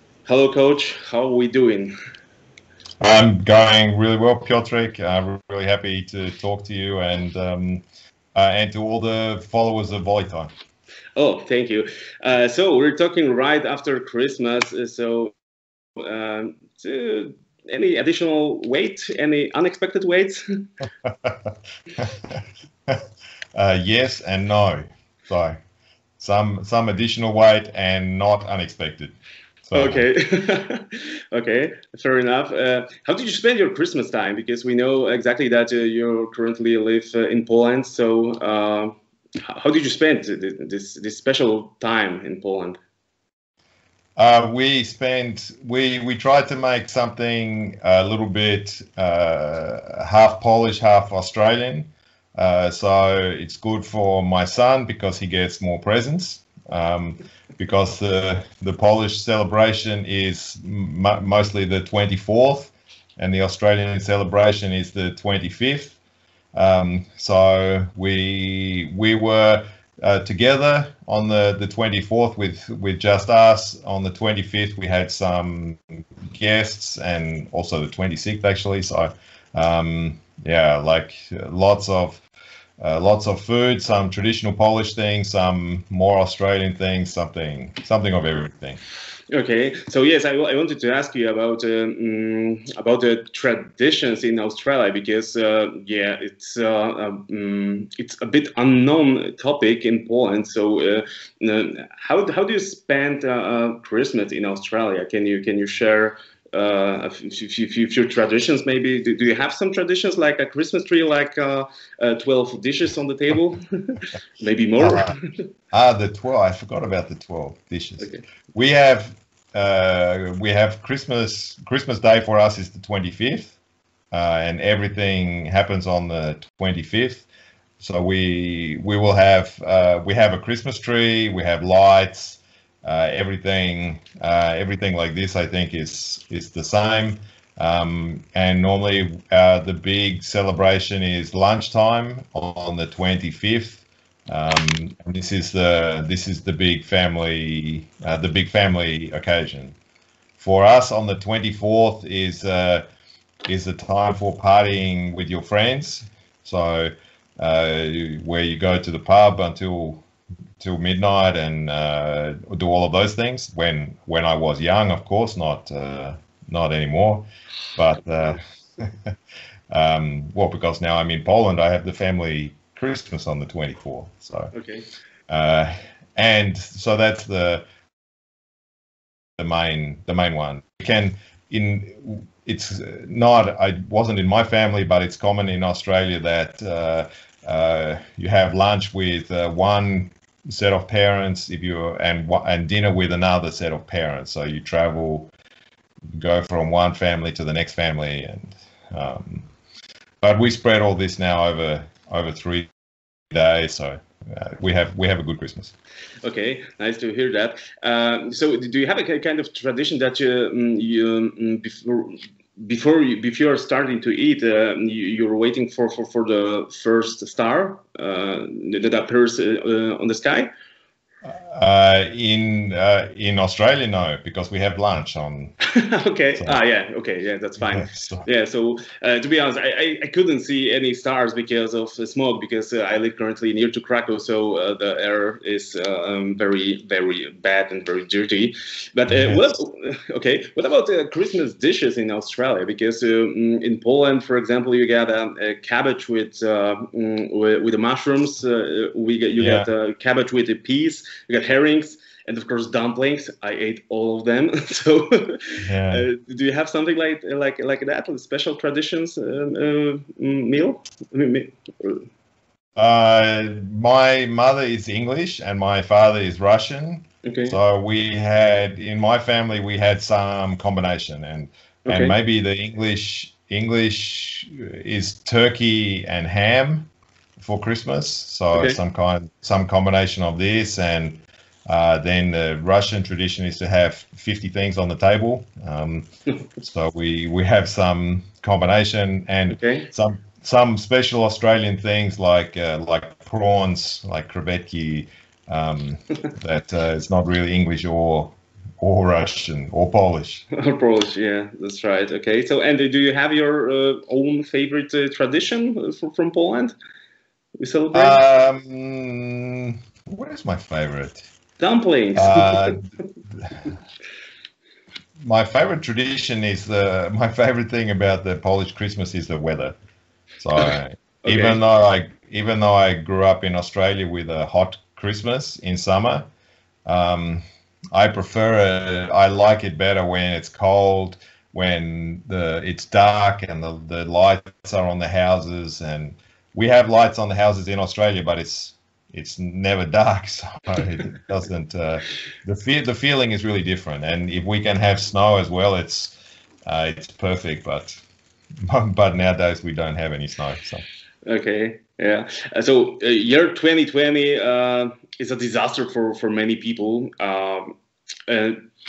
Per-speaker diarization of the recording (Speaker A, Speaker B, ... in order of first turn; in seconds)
Speaker A: 0.3-1.9, 11.2-15.3, 16.0-20.4, 29.7-42.8, 89.3-115.2, 174.5-174.9, 206.2-220.5, 225.8-262.1, 267.2-267.6, 271.9-272.1, 278.5-278.8, 289.5-289.9, 300.5-306.8, 307.6-308.2, 311.6-312.8, 320.6-321.6, 351.3-357.7, 358.3-358.6
Speaker B: 3.0-7.8, 8.3-10.5, 22.0-23.0, 23.6-25.6, 26.2-30.1, 44.2-66.0, 66.5-82.2, 82.8-88.8, 114.8-115.2, 115.7-123.6, 124.1-127.3, 127.8-149.8, 150.4-152.8, 153.5-160.0, 160.6-167.2, 167.8-169.1, 169.7-174.5, 175.3-177.6, 179.4-195.3, 196.1-199.5, 200.2-202.7, 203.3-205.7, 221.2-225.6, 227.7-228.3, 239.1-239.4, 249.4-249.7, 255.7-256.1, 262.8-286.1, 286.6-300.4, 307.9-311.3, 312.1-312.8, 315.2-319.8, 320.4-326.3, 326.9-346.1, 346.7-348.0, 348.6-350.8